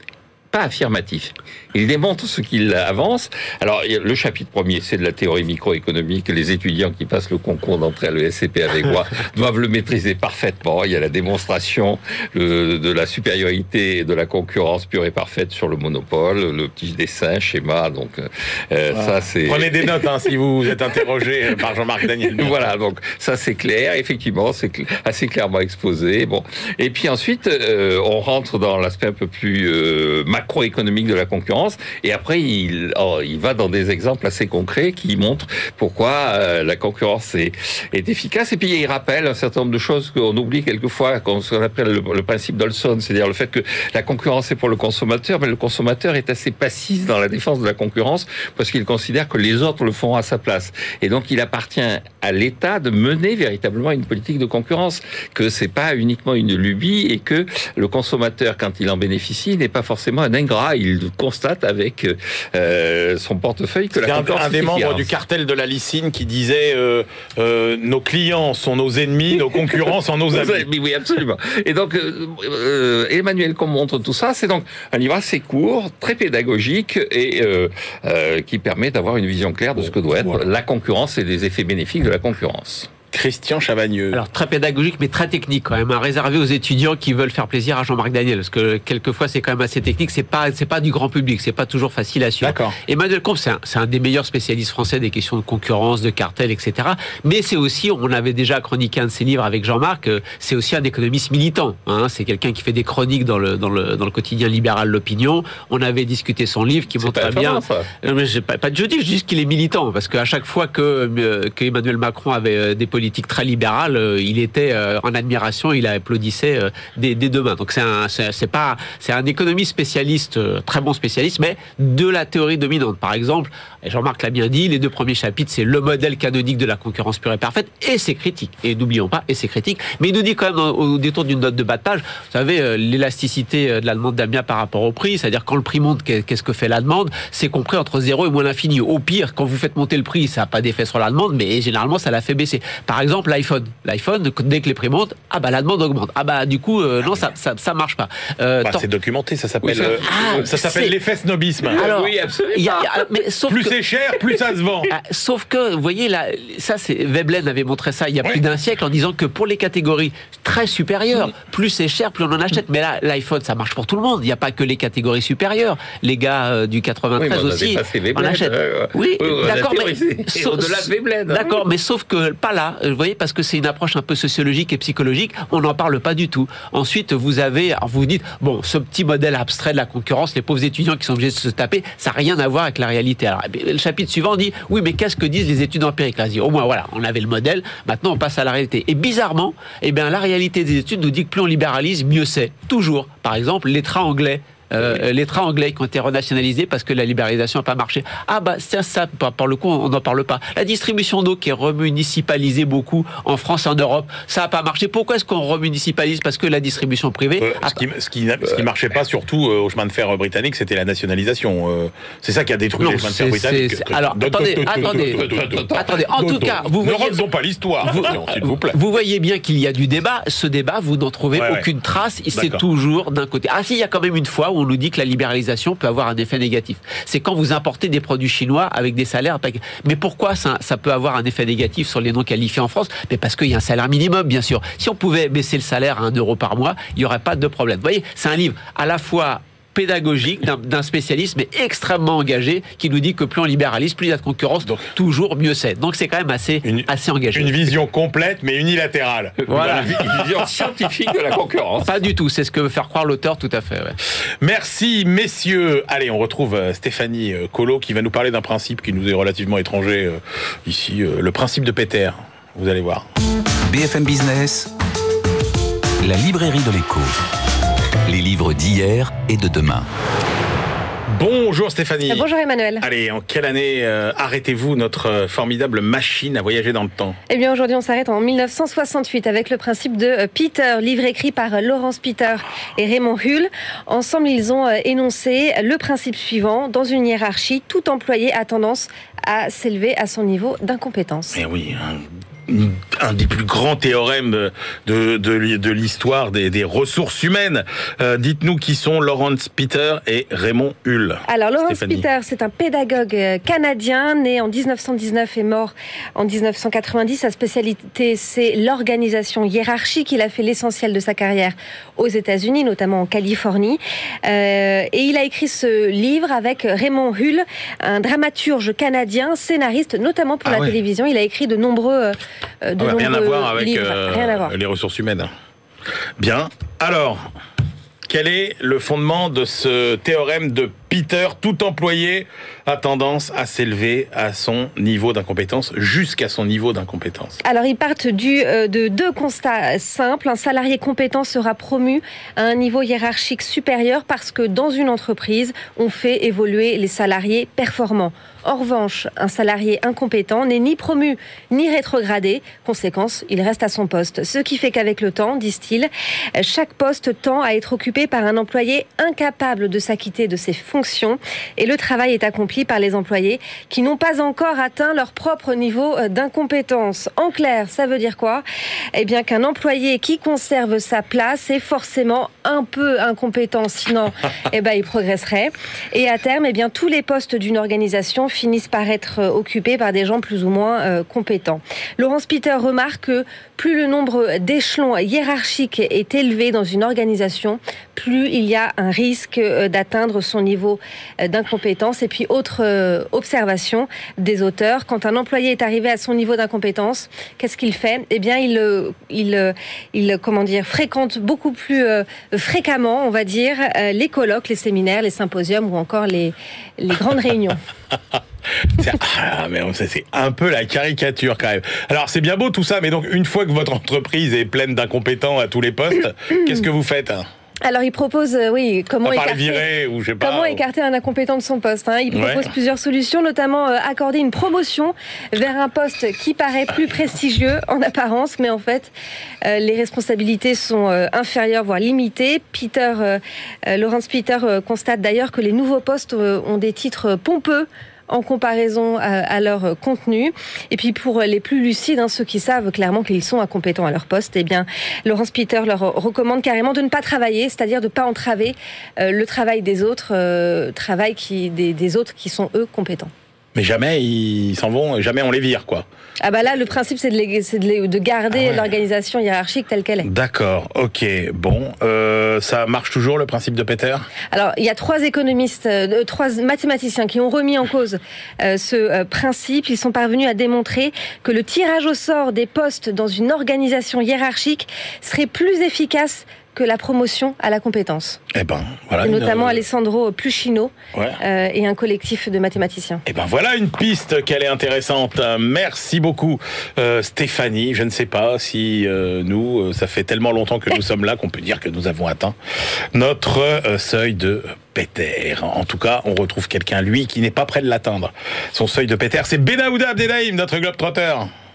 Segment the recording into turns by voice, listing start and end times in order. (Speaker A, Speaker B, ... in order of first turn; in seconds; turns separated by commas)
Speaker A: 0.5-20.0, Speaker B: 18.9-22.7, Speaker A: 22.3-65.1, Speaker B: 64.0-70.7, Speaker A: 69.4-82.9, Speaker B: 83.1-84.2, Speaker C: 84.1-148.8, Speaker B: 92.4-92.8, Speaker A: 107.0-107.9, Speaker B: 148.6-151.8, Speaker A: 149.6-150.6, Speaker C: 149.8-150.9, Speaker A: 151.7-153.2, Speaker C: 151.7-153.8, Speaker B: 153.5-154.9, Speaker C: 154.9-207.8, Speaker A: 167.2-171.6, Speaker B: 207.4-218.8, Speaker C: 212.8-217.2, Speaker A: 214.8-215.9, Speaker C: 217.8-247.7, Speaker B: 221.3-221.7, Speaker B: 222.3-222.6, Speaker B: 244.6-244.9, Speaker B: 246.6-250.3, Speaker A: 249.5-251.9, Speaker C: 249.5-249.9, Speaker C: 251.8-254.0, Speaker B: 254.4-263.0, Speaker D: 263.7-264.7, Speaker D: 266.0-267.2, Speaker D: 268.1-269.9, Speaker B: 271.1-272.3, Speaker E: 272.1-272.8, Speaker B: 272.8-277.2, Speaker E: 277.3-291.4, Speaker B: 291.3-302.1, Speaker E: 301.3-324.6, Speaker B: 320.4-320.8, Speaker B: 322.8-325.3, Speaker B: 326.2-327.2, Speaker B: 328.1-337.4, Speaker E: 337.4-407.6, Speaker B: 408.6-417.3, Speaker E: 417.6-419.7, Speaker B: 419.1-420.6, Speaker E: 420.2-428.9, Speaker B: 422.1-422.5, Speaker E: 429.4-453.1, Speaker B: 453.6-455.9, Speaker E: 456.2-460.1, Speaker B: 458.3-458.7, Speaker B: 460.0-464.1, Speaker E: 464.3-478.2, Speaker B: 478.3-479.6, Speaker E: 479.0-483.0, Speaker B: 480.9-481.2, Speaker B: 483.1-492.4, Speaker B: 492.9-501.3